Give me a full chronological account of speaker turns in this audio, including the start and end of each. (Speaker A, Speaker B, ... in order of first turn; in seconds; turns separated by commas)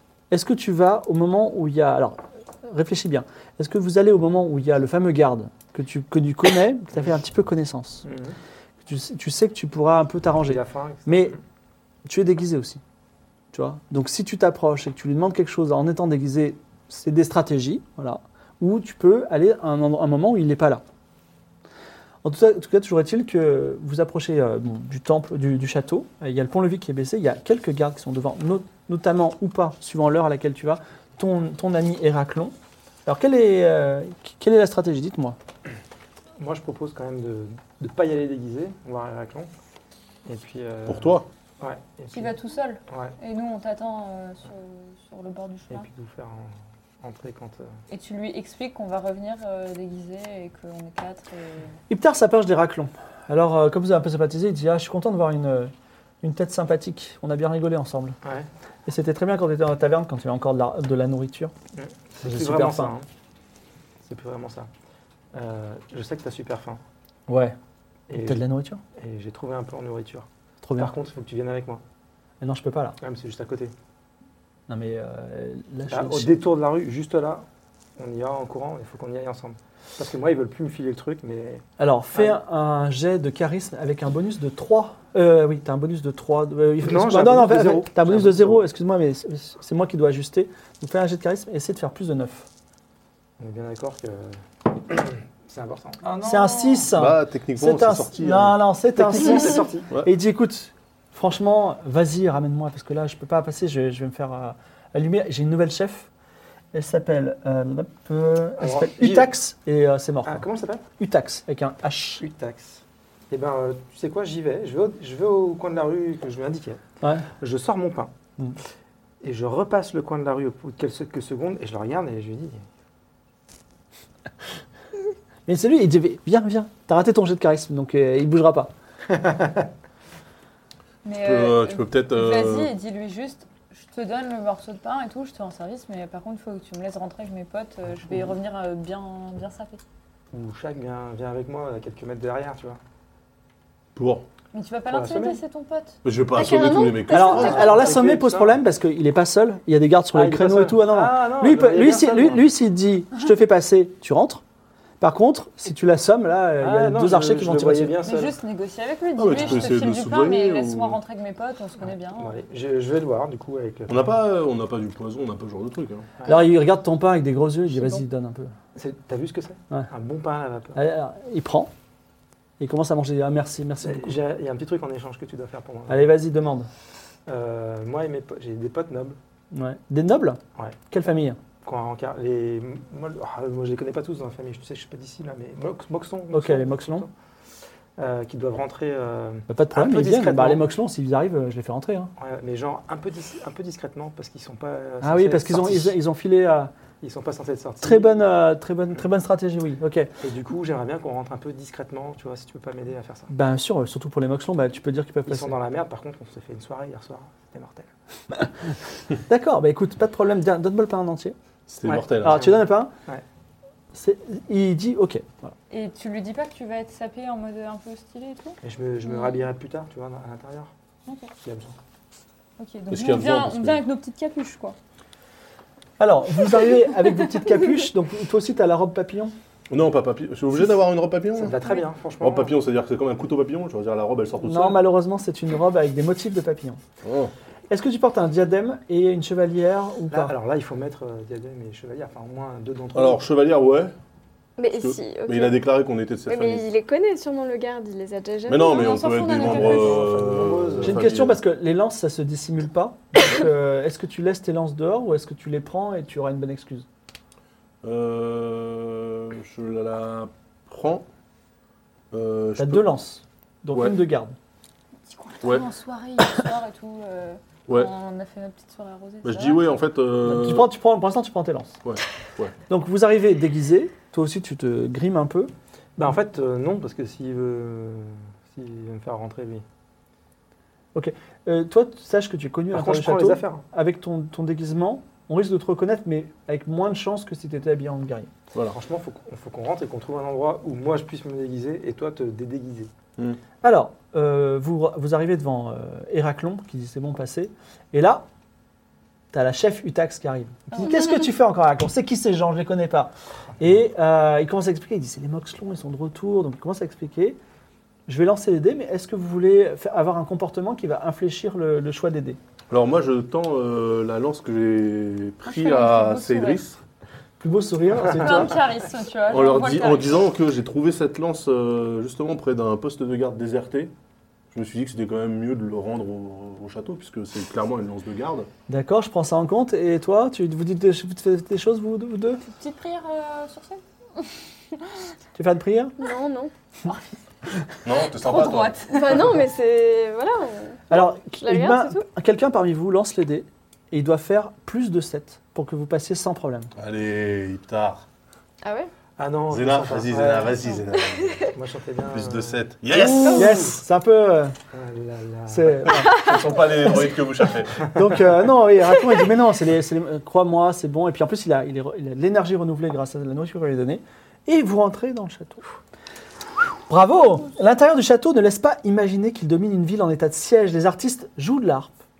Speaker A: 0.3-8.0, Speaker B: 8.0-8.4, Speaker A: 8.8-11.3, Speaker B: 10.4-11.4, Speaker A: 12.1-12.8, Speaker A: 13.5-20.8, Speaker A: 22.2-32.5, Speaker A: 33.0-35.4, Speaker B: 36.4-39.5, Speaker B: 40.2-42.4, Speaker C: 40.9-41.2, Speaker D: 42.1-45.9, Speaker B: 42.9-43.1, Speaker B: 45.7-47.7, Speaker D: 47.9-51.7, Speaker A: 51.9-58.2, Speaker A: 58.9-61.5, Speaker B: 61.7-63.0, Speaker A: 62.2-63.0, Speaker B: 64.0-64.7, Speaker B: 65.3-66.8, Speaker A: 67.3-67.5, Speaker B: 68.1-68.4, Speaker A: 68.1-68.8, Speaker B: 69.0-71.8, Speaker A: 70.6-70.9, Speaker A: 72.4-73.0, Speaker B: 73.0-73.7, Speaker A: 74.7-76.4, Speaker B: 75.9-77.5, Speaker B: 78.0-82.4, Speaker A: 81.8-92.5, Speaker B: 86.8-88.6, Speaker B: 93.4-96.8, Speaker A: 96.2-106.1, Speaker D: 96.2-96.7, Speaker C: 96.9-98.6, Speaker B: 98.9-99.9, Speaker A: 106.7-112.2, Speaker B: 108.6-109.3, Speaker B: 110.2-110.8, Speaker B: 112.2-116.8, Speaker A: 117.0-117.3, Speaker B: 117.4-118.1, Speaker B: 119.2-122.6, Speaker A: 125.5-128.7, Speaker B: 129.1-129.7, Speaker D: 131.0-139.8, Speaker C: 131.2-132.7, Speaker B: 138.1-138.3, Speaker B: 140.3-142.8, Speaker C: 143.9-144.2, Speaker D: 144.5-146.0, Speaker B: 144.9-145.4, Speaker C: 146.0-147.8, Speaker E: 146.3-147.8, Speaker A: 147.1-154.4, Speaker B: 147.3-148.6, Speaker B: 150.1-152.5, Speaker A: 155.0-158.0, Speaker B: 156.6-158.4, Speaker D: 158.0-162.4, Speaker C: 159.2-161.0, Speaker B: 159.3-159.7, Speaker B: 162.1-164.1, Speaker C: 163.9-166.1, Speaker A: 166.2-168.5, Speaker B: 168.7-170.8, Speaker A: 170.7-171.7, Speaker A: 172.6-174.2, Speaker B: 173.8-176.1, Speaker A: 175.9-176.7, Speaker B: 177.3-179.2, Speaker A: 179.5-181.4, Speaker B: 181.6-187.1, Speaker A: 186.3-187.1, Speaker B: 188.0-190.6, Speaker A: 189.5-192.1, Speaker B: 192.2-196.0, Speaker A: 195.0-196.7, Speaker B: 197.0-198.2, Speaker A: 197.8-200.1, Speaker B: 200.2-203.3, Speaker A: 203.3-205.5, Speaker B: 205.2-207.9, Speaker A: 209.3-211.3, Speaker C: 211.7-212.5, Speaker B: 211.8-213.2, Speaker A: 212.2-212.9, Speaker A: 213.9-215.5, Speaker D: 215.7-219.4, Speaker B: 218.6-220.7, Speaker B: 221.4-221.8, Speaker D: 222.6-224.8, Speaker C: 222.9-223.8, Speaker A: 226.0-229.3, Speaker C: 229.7-231.6, Speaker B: 231.3-232.5, Speaker C: 232.2-234.8, Speaker A: 234.4-236.8, Speaker C: 237.0-237.3, Speaker A: 237.7-240.3, Speaker B: 240.1-243.2, Speaker C: 242.9-243.9, Speaker E: 244.6-245.6, Speaker C: 244.7-246.7, Speaker E: 246.2-249.1, Speaker C: 248.5-251.4, Speaker D: 248.6-250.1, Speaker B: 249.3-251.1, Speaker A: 250.8-256.9, Speaker C: 257.8-261.1, Speaker C: 262.1-262.9, Speaker A: 262.6-264.4, Speaker D: 265.1-269.6, Speaker C: 269.2-270.7, Speaker A: 270.2-271.8, Speaker C: 271.8-272.5, Speaker A: 272.7-275.5, Speaker B: 276.0-279.6, Speaker A: 280.9-288.3, Speaker B: 282.7-283.6, Speaker B: 288.7-292.9, Speaker A: 293.6-298.2, Speaker A: 299.3-307.4, Speaker A: 308.1-312.4, Speaker C: 312.7-316.8, Speaker D: 315.4-316.6, Speaker A: 317.4-318.6, Speaker D: 318.1-320.2, Speaker C: 319.3-323.9, Speaker C: 324.5-328.5, Speaker A: 328.7-332.4, Speaker D: 332.4-333.8, Speaker A: 335.3-336.0, Speaker E: 336.0-336.5, Speaker C: 337.8-338.8, Speaker D: 338.1-339.3, Speaker E: 338.9-342.0, Speaker A: 340.9-346.7, Speaker C: 346.7-348.0, Speaker E: 348.6-348.9, Speaker B: 349.2-350.7, Speaker C: 349.5-351.5, Speaker E: 351.0-351.5, Speaker B: 351.5-352.6, Speaker C: 352.1-353.6, Speaker A: 352.9-354.5, Speaker B: 353.3-353.6, Speaker E: 353.3-353.6, Speaker B: 354.7-355.9, Speaker A: 355.5-356.3, Speaker C: 356.1-357.9, Speaker E: 356.2-356.5, Speaker A: 357.9-365.6, Speaker A: 366.9-371.9